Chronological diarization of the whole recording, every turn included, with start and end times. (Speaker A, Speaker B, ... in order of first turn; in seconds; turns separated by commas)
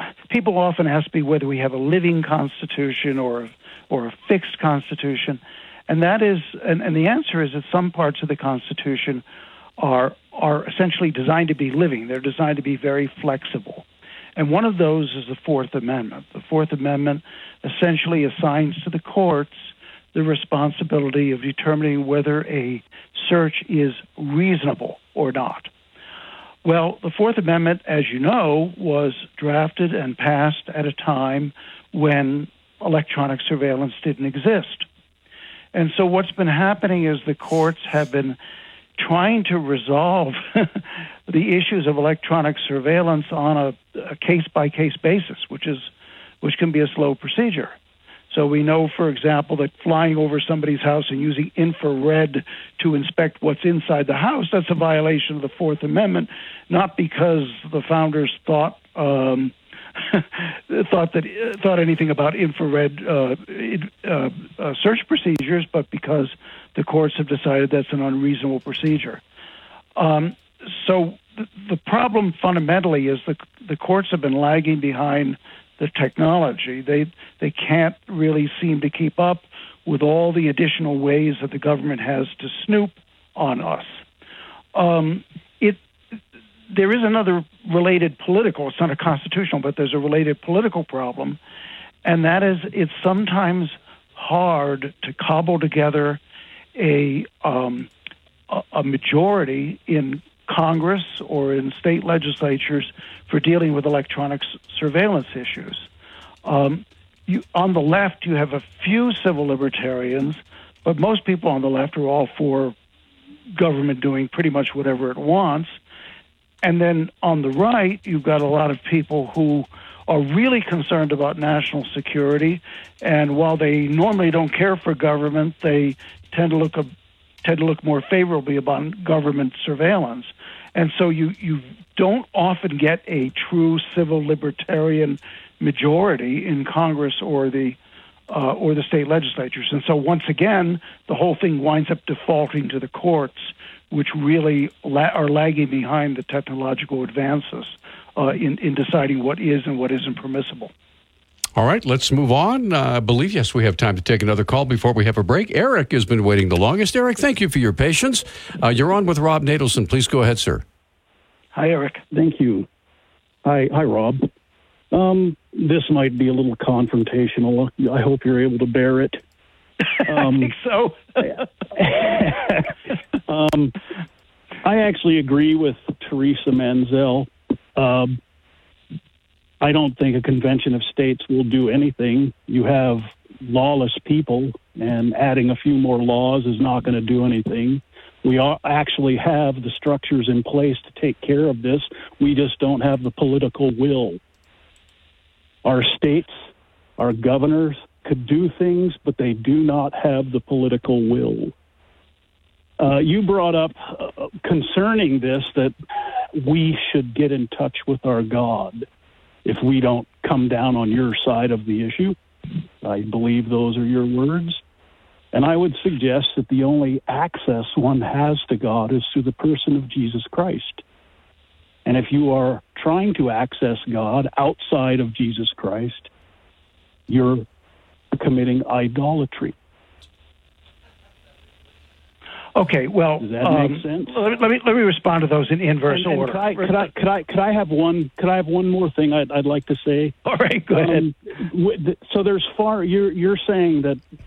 Speaker A: 0.3-9.2, Speaker A: 9.8-13.8, Speaker A: 14.4-25.7, Speaker A: 26.6-34.9, Speaker A: 35.7-38.4, Speaker A: 39.0-45.9, Speaker A: 46.4-47.7, Speaker A: 48.3-69.2, Speaker A: 70.0-84.0, Speaker A: 84.7-85.8, Speaker A: 86.7-91.4, Speaker A: 92.0-96.2, Speaker A: 96.8-97.9, Speaker A: 98.5-105.9, Speaker A: 106.4-112.7, Speaker A: 113.5-115.8, Speaker A: 116.6-126.9, Speaker A: 127.4-137.8, Speaker A: 138.3-150.7, Speaker B: 151.6-160.6, Speaker A: 161.5-162.0, Speaker C: 162.1-162.7, Speaker C: 163.4-164.3, Speaker C: 164.9-169.2, Speaker C: 170.1-170.6, Speaker A: 170.1-171.1, Speaker C: 171.8-172.7, Speaker C: 173.3-173.7, Speaker C: 174.6-178.2, Speaker C: 179.6-194.2, Speaker C: 195.6-196.4, Speaker C: 197.0-201.5, Speaker C: 202.8-205.7, Speaker C: 206.3-208.8, Speaker C: 209.4-212.2, Speaker C: 212.8-214.6, Speaker C: 215.3-220.8, Speaker C: 221.8-226.1, Speaker C: 227.1-227.4, Speaker C: 228.1-229.5, Speaker A: 232.5-236.9, Speaker C: 233.2-234.2, Speaker C: 235.8-240.1, Speaker A: 240.2-241.1, Speaker C: 240.7-244.0